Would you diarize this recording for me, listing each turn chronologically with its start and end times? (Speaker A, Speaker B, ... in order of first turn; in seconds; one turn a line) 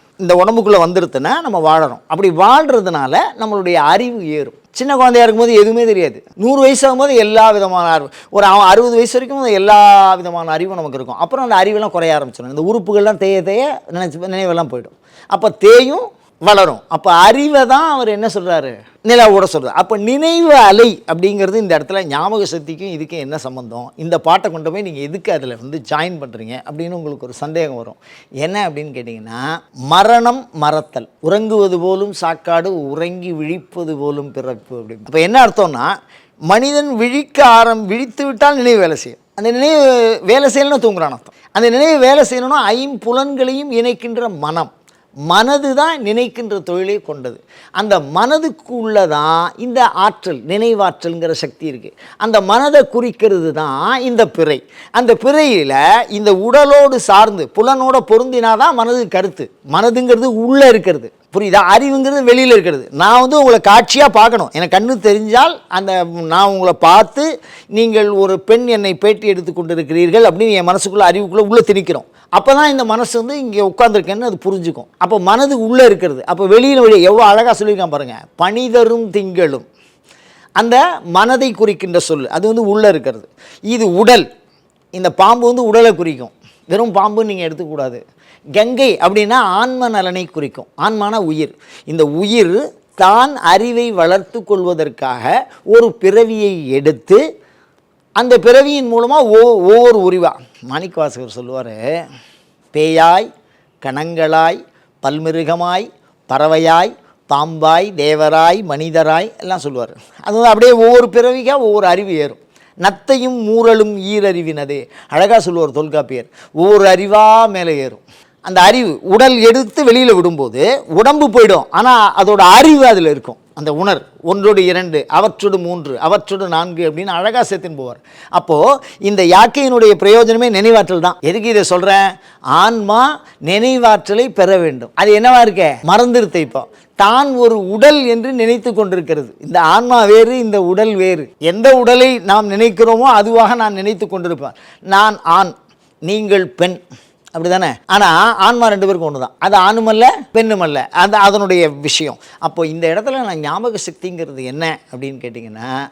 Speaker A: 0.2-35.9
Speaker A: 36.5-44.7
Speaker A: 45.3-79.7
Speaker A: 80.6-84.3
Speaker A: 85.0-88.0
Speaker A: 88.6-97.2
Speaker A: 98.2-101.8
Speaker A: 102.7-103.3
Speaker A: 103.8-145.5
Speaker A: 146.1-146.8
Speaker A: 147.3-155.7